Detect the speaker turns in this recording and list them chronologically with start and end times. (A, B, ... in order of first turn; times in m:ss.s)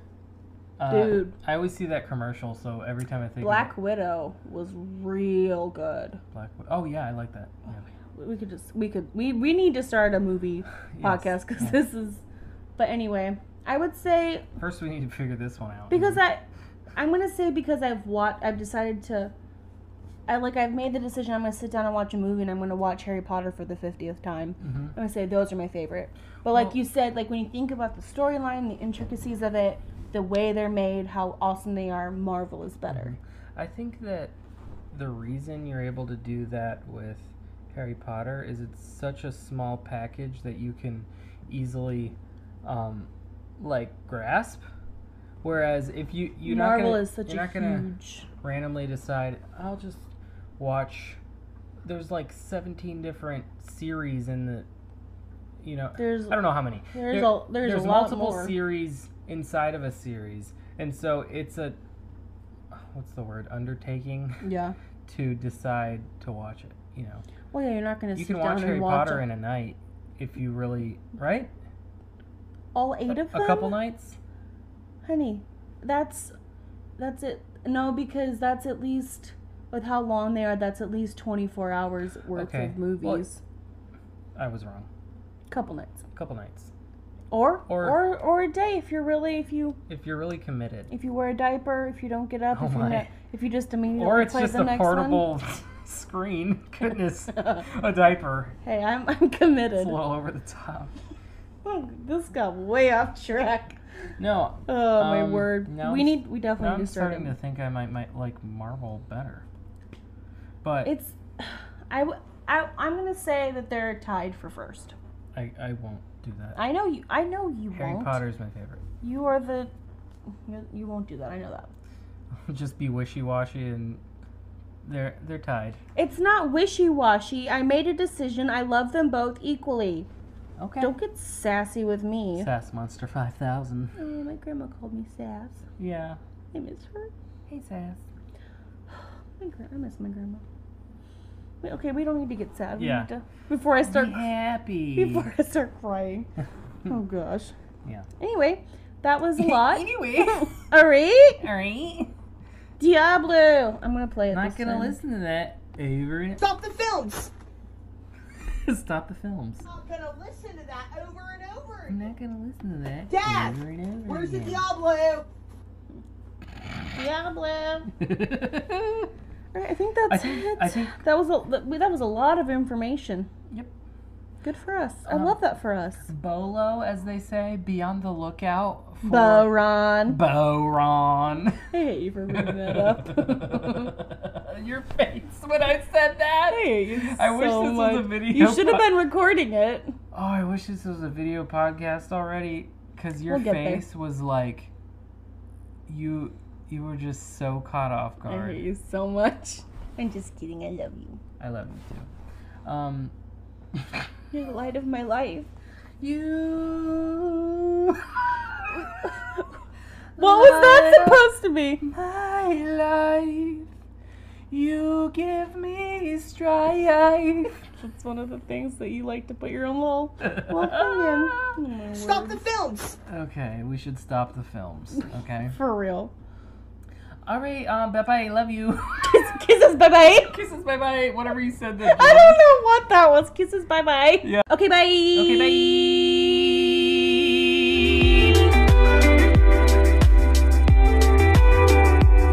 0:00.8-0:03.7 A
0:00.9-0:01.3 B
0:03.4-0:06.2 B
0:06.3-0:07.8 A
0:08.0-0:12.2 B
0:10.9-0:11.8 A
0:12.8-0:14.4 B
0:14.6-0:16.2 A
0:15.9-0:19.3 B
0:20.3-0:33.2 B
0:24.6-0:25.0 A
0:26.5-0:26.8 A
0:32.9-0:34.3 A
0:34.9-0:44.6 A
0:45.4-0:47.9 A
0:46.4-0:48.3 B
0:48.4-0:51.2 A
0:51.8-0:54.7 A
0:55.6-1:01.8 A
0:56.0-0:58.5 B
1:02.7-1:04.4 A
1:04.4-1:04.8 B
1:05.0-1:07.2 A
1:07.5-1:09.2 B
1:08.2-1:11.5 A
1:12.7-1:13.7 B
1:13.1-1:14.2 A
1:15.0-1:16.3 B
1:17.0-1:23.4 B
1:22.3-1:23.3 A
1:24.3-1:24.9 A
1:25.5-1:26.0 B
1:26.1-1:26.7 A
1:27.3-1:29.8 B
1:27.7-1:28.0 A
1:29.9-1:30.9 A
1:30.9-1:35.2 B
1:32.5-1:33.1 A
1:34.0-1:38.6 A
1:37.3-1:37.6 B
1:38.6-1:40.0 B
1:39.8-1:40.9 A
1:41.6-1:43.8 B
1:44.2-1:49.4 A
1:44.7-1:47.3 B
1:50.6-1:50.9 A
1:50.8-1:54.9 B
1:55.3-1:56.6 A
1:56.5-1:58.2 B
1:57.7-1:58.8 A
1:59.0-1:59.7 B
2:00.5-2:01.7 B
2:02.4-2:04.0 A
2:04.8-2:05.8 A
2:06.0-2:10.1 B
2:10.6-2:10.9 A
2:10.8-2:12.5 B
2:12.4-2:13.9 A
2:13.9-2:15.6 B
2:15.8-2:16.2 A
2:16.5-2:17.1 B
2:17.5-2:18.0 A
2:18.9-2:20.4 B
2:21.6-2:24.3 B
2:22.8-2:23.1 A
2:23.8-2:25.3 A
2:24.9-2:26.3 B
2:26.8-2:27.5 B
2:28.2-2:29.9 B
2:29.4-2:30.7 A
2:30.4-2:31.4 B
2:31.4-2:32.1 A
2:32.8-2:35.0 B
2:34.3-2:36.4 A
2:36.4-2:37.3 C
2:38.4-2:39.6 A
2:39.6-2:42.0 C
2:41.9-2:44.6 A
2:43.1-2:45.3 C
2:46.9-2:47.9 B
2:48.0-2:49.1 A
2:49.5-2:53.3 B
2:50.1-2:51.0 A
2:54.4-2:56.1 B
2:55.1-2:55.4 A
2:56.1-2:59.5 A
2:59.0-3:00.2 B
3:00.0-3:01.7 A
3:01.7-3:04.0 B
3:02.3-3:09.0 A
3:06.5-3:10.0 B
3:10.1-3:14.7 A
3:13.3-3:13.8 B
3:15.9-3:18.6 A
3:18.3-3:21.2 B
3:21.4-3:22.1 A
3:22.6-3:23.1 A
3:23.7-3:24.1 A
3:24.3-3:25.5 B
3:26.0-3:29.4 A
3:28.7-3:29.4 B
3:30.2-3:31.3 A
3:30.2-3:31.9 B
3:31.8-3:33.7 A
3:34.5-3:37.6 A
3:37.7-3:42.4 B
3:40.2-3:41.5 A
3:41.9-3:43.0 C
3:43.1-3:45.6 A
3:45.5-3:46.1 B
3:47.2-3:49.4 A
3:49.0-3:50.4 B
3:50.0-3:52.4 A
3:51.8-3:55.7 B
3:54.2-3:54.5 A
3:55.1-3:58.4 A